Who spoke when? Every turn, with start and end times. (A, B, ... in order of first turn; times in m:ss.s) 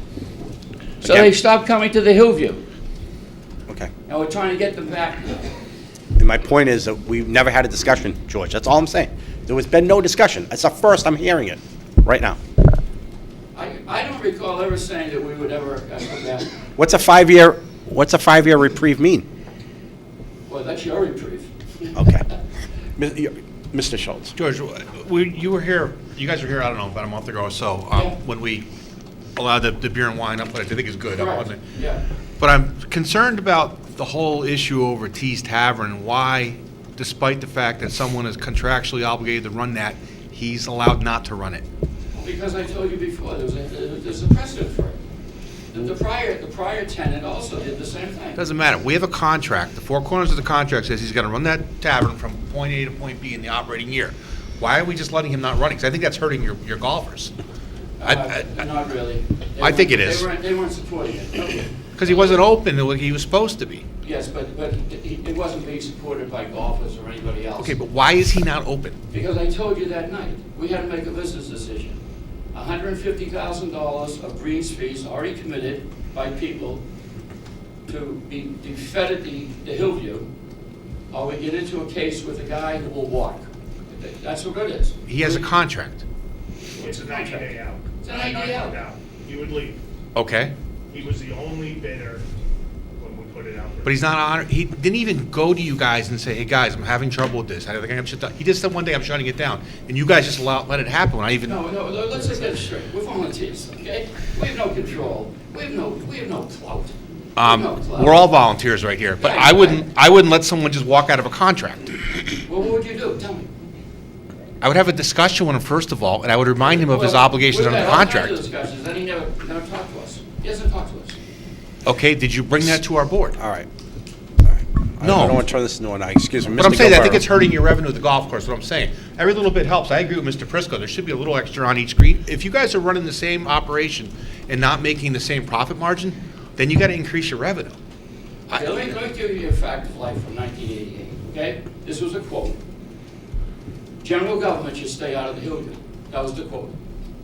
0:01.0-0:01.3 A
0:01.0-0:02.6 B
0:04.1-0:05.5 B
0:06.2-0:12.4 A
0:13.5-0:16.5 B
0:16.8-0:19.2 A
0:20.5-0:21.5 B
0:21.9-0:22.2 A
0:23.0-0:24.3 A
0:24.4-0:28.6 C
0:29.4-0:31.6 C
0:31.1-0:32.0 B
0:32.4-0:41.6 C
0:42.2-0:45.0 B
0:45.7-0:48.4 B
0:48.4-0:57.3 C
0:58.0-1:02.4 B
0:58.0-0:58.4 C
0:59.6-1:00.3 C
1:02.0-1:03.8 C
1:04.0-1:07.7 B
1:07.6-1:09.0 C
1:09.1-1:12.0 B
1:12.5-1:16.8 B
1:17.8-1:20.3 B
1:21.1-1:25.5 B
1:25.1-1:26.0 C
1:26.7-1:28.8 B
1:26.8-1:29.8 D
1:30.1-1:30.5 C
1:30.9-1:32.2 D
1:33.0-1:34.0 D
1:33.8-1:41.6 C
1:41.5-1:48.3 B
1:47.4-1:51.9 C
1:49.2-1:49.8 B
1:52.4-1:53.5 B
1:54.6-1:58.4 C
1:56.6-2:01.2 B
2:01.8-2:03.4 C
2:03.4-2:03.7 A
2:04.4-2:07.2 A
2:05.0-2:05.4 C
2:06.6-2:17.8 C
2:18.5-2:22.6 B
2:24.0-2:26.7 B